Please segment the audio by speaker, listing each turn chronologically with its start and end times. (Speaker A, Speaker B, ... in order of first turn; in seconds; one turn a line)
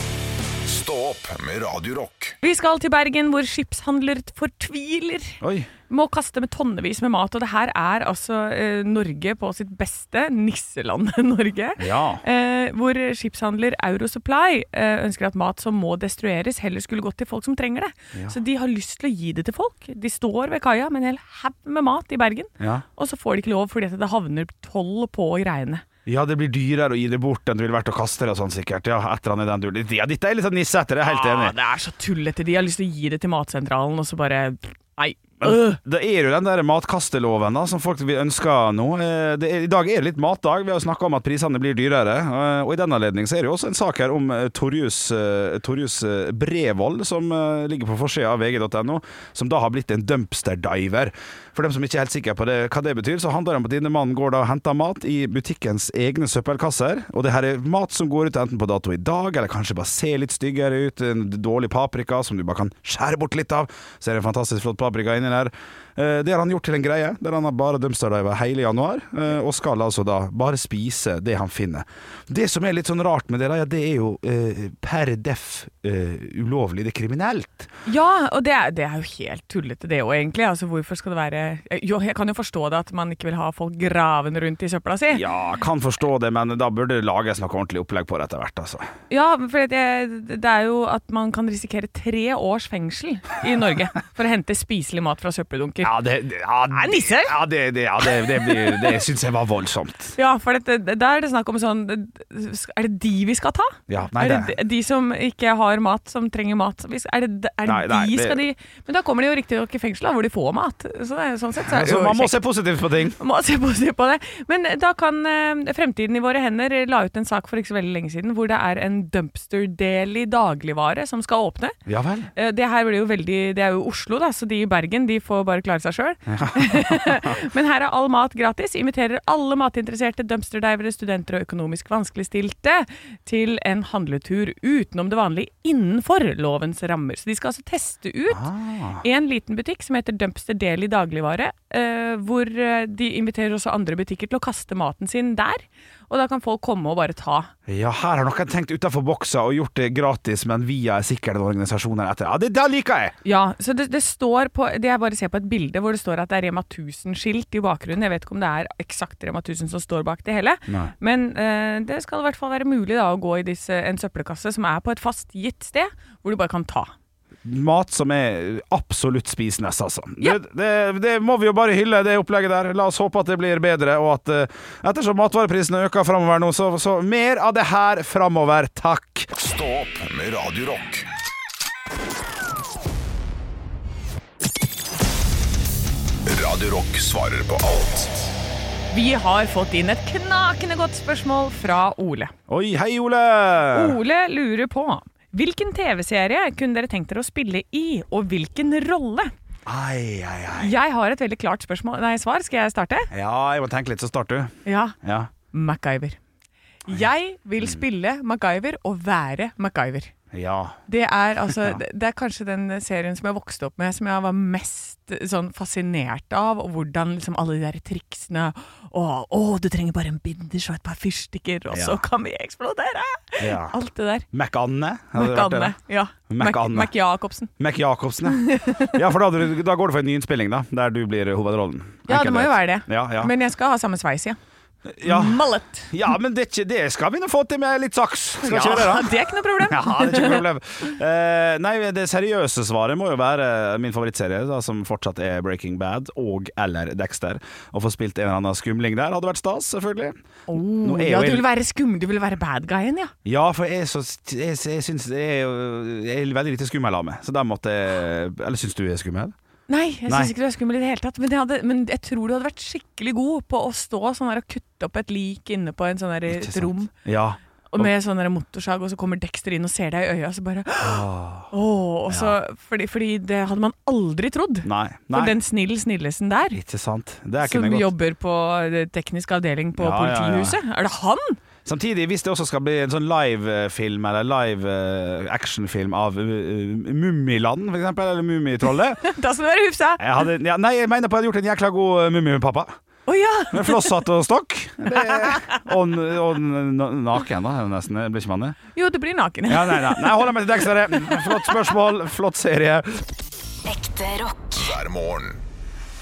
Speaker A: 0.6-2.4
Speaker B: 2.4-25.8
Speaker C: 5.4-5.7
Speaker C: 11.8-12.2
Speaker C: 22.6-22.9
Speaker C: 26.1-31.6
Speaker B: 31.0-35.8
Speaker C: 35.4-77.7
Speaker B: 77.9-85.2
Speaker C: 85.1-88.8
Speaker B: 89.1-95.9
Speaker C: 95.8-100.1
Speaker B: 96.7-97.3
Speaker B: 98.2-98.9
Speaker B: 100.2-112.3
Speaker C: 103.9-104.5
Speaker C: 107.6-108.4
Speaker C: 111.6-113.2
Speaker B: 113.2-121.8
Speaker C: 121.9-122.3
Speaker B: 122.4-138.5
Speaker C: 126.3-127.4
Speaker C: 138.3-139.0
Speaker B: 139.0-147.5
Speaker C: 147.7-153.2
Speaker B: 153.2-166.9
Speaker C: 167.4-179.3
Speaker A: 179.4-181.1
Speaker A: 186.3-188.3
Speaker B: 188.9-192.3
Speaker C: 192.5-194.0
Speaker B: 193.7-199.3
Speaker C: 199.7-200.8
Speaker B: 200.6-203.1
Speaker C: 203.1-205.3
Speaker B: 204.7-205.0
Speaker B: 205.5-206.2
Speaker B: 206.9-210.1
Speaker C: 210.3-210.8
Speaker B: 210.9-224.3
Speaker C: 211.5-211.8
Speaker C: 221.7-222.0
Speaker C: 223.4-223.8
Speaker C: 224.3-225.8
Speaker B: 225.2-227.5
Speaker C: 226.3-226.9
Speaker C: 227.6-233.3
Speaker B: 228.2-229.0
Speaker B: 232.1-234.4
Speaker C: 234.9-251.5
Speaker B: 235.0-235.9
Speaker B: 238.4-240.4
Speaker B: 250.5-253.1
Speaker C: 253.2-259.3
Speaker B: 259.7-266.9
Speaker C: 260.1-260.3
Speaker C: 266.3-267.9
Speaker B: 267.7-276.6
Speaker C: 270.8-271.5
Speaker C: 272.1-272.4
Speaker C: 274.6-275.4
Speaker C: 276.5-277.9
Speaker B: 277.4-281.4
Speaker C: 279.8-280.6
Speaker C: 281.6-289.1
Speaker B: 289.0-290.1
Speaker C: 290.0-292.7
Speaker B: 293.1-293.9
Speaker C: 293.5-298.6
Speaker B: 294.9-295.6
Speaker B: 298.7-301.6
Speaker C: 299.5-303.0
Speaker A: 303.7-305.4